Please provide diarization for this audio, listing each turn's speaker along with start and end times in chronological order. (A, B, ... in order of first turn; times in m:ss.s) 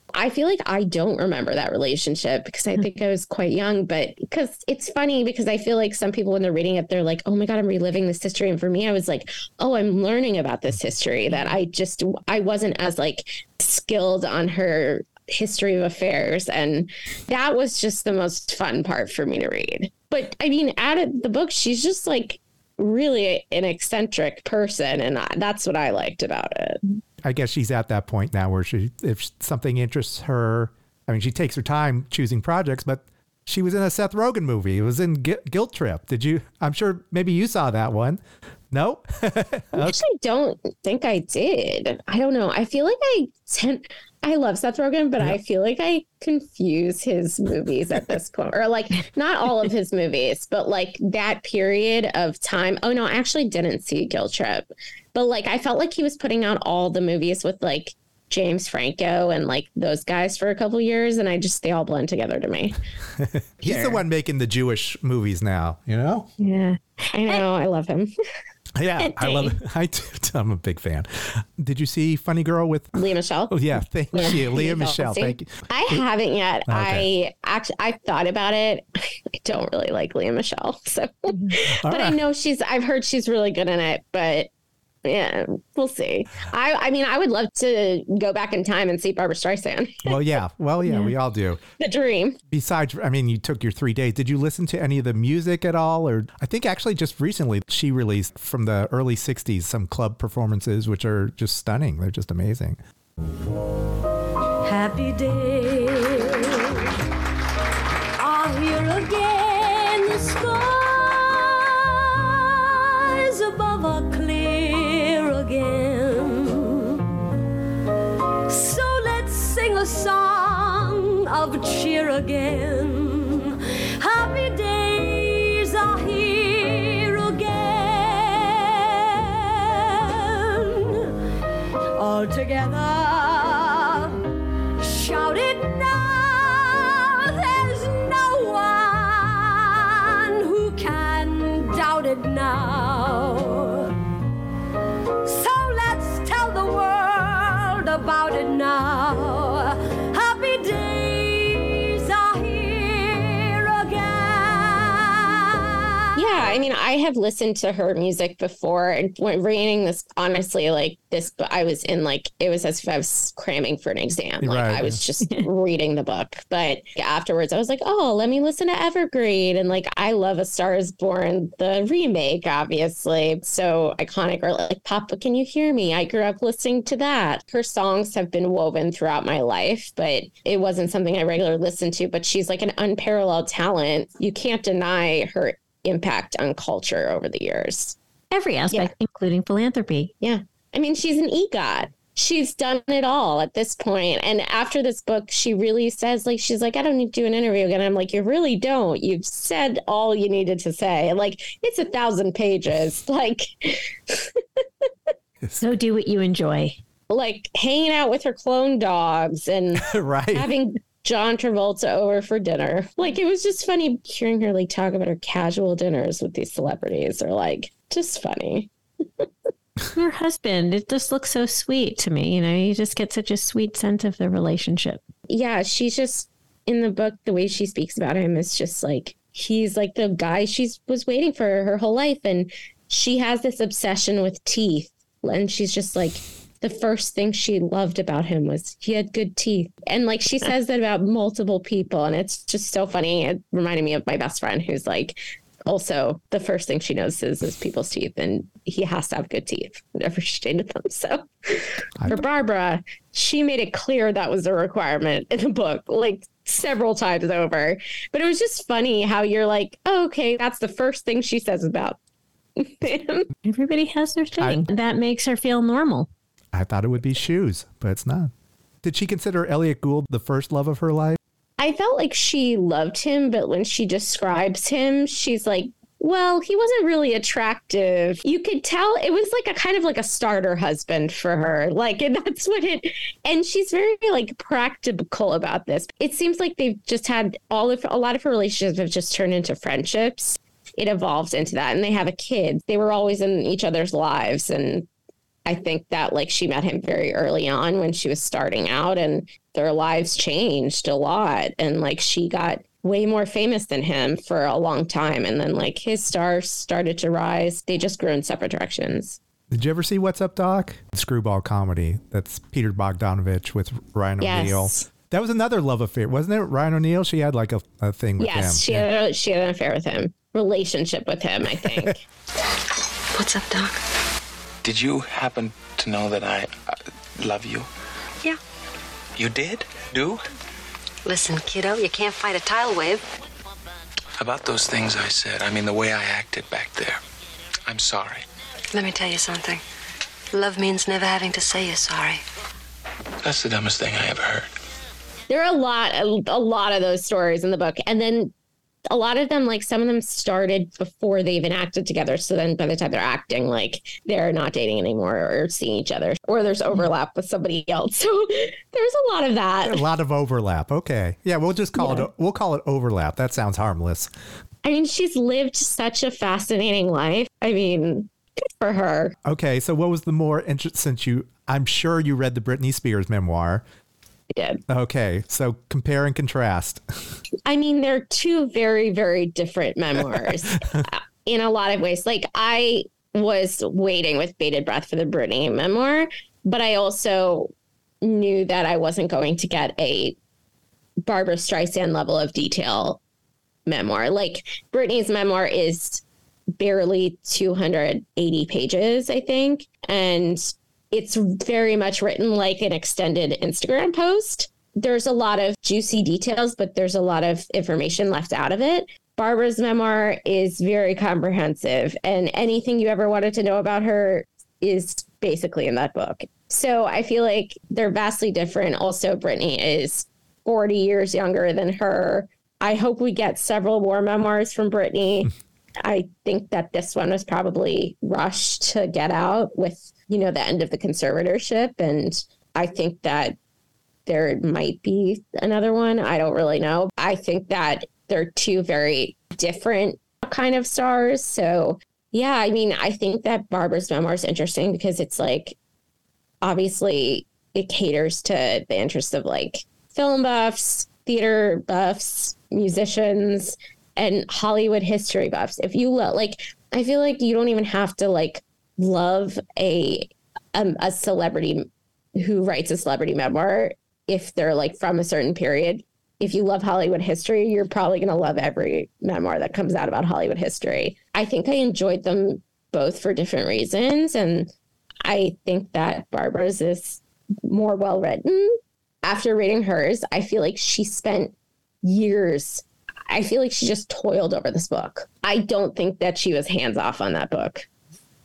0:00.1-0:26.8 A
0:27.2-0:40.0 B
0:39.8-1:02.8 A
1:03.2-1:06.3 B
1:03.6-1:04.0 A
1:06.4-1:07.4 C
1:07.1-1:08.1 A
1:08.8-1:16.0 B
1:09.0-1:09.6 C
1:13.0-1:13.6 A
1:14.2-1:18.8 A
1:16.7-1:17.1 B
1:19.4-1:24.5 A
1:21.8-1:22.2 B
1:25.0-1:30.2 A
1:30.1-1:31.6 B
1:31.8-1:32.4 A
1:32.5-1:42.8 B
1:44.6-1:46.9 D
1:48.2-1:57.1 D
1:58.5-2:11.2 D
2:12.0-2:14.2 D
2:14.8-2:24.0 D
2:25.2-2:36.5 D
2:36.2-3:08.0 A
2:44.4-2:45.0 B
3:08.3-3:10.1 C
3:10.2-3:25.1 A
3:25.6-3:26.8 C
3:27.1-3:39.3 A
3:29.8-3:30.5 B
3:40.0-3:45.0 C
3:45.3-4:22.0 A
4:12.0-4:12.2 B
4:22.6-4:23.3 A
4:23.4-4:26.1 C
4:26.5-4:28.3 B
4:28.8-4:31.2 B
4:31.6-4:54.9 A
4:55.5-5:09.2 A
5:09.5-5:18.9 B
5:14.2-5:14.8 A
5:18.2-5:22.0 A
5:23.2-5:23.8 E
5:24.6-5:27.7 F
5:29.2-5:30.2 F
5:31.0-5:33.0 E
5:34.2-5:37.0 F
5:37.7-5:38.2 F
5:38.7-5:39.6 E
5:40.3-5:42.2 E
5:43.2-5:44.5 F
5:45.3-5:48.3 A
5:48.9-5:59.8 A
5:59.6-6:04.1 B
6:04.6-6:09.2 A
6:09.2-6:13.6 B
6:14.3-6:14.6 A
6:14.7-6:17.2 B
6:17.4-6:27.5 A
6:28.0-6:30.2 A
6:31.0-6:33.0 A
6:33.7-6:36.0 A
6:36.6-7:05.3 A
7:05.8-7:13.4 A
7:14.1-7:25.6 A
7:26.4-7:54.5 A
7:55.0-8:07.7 A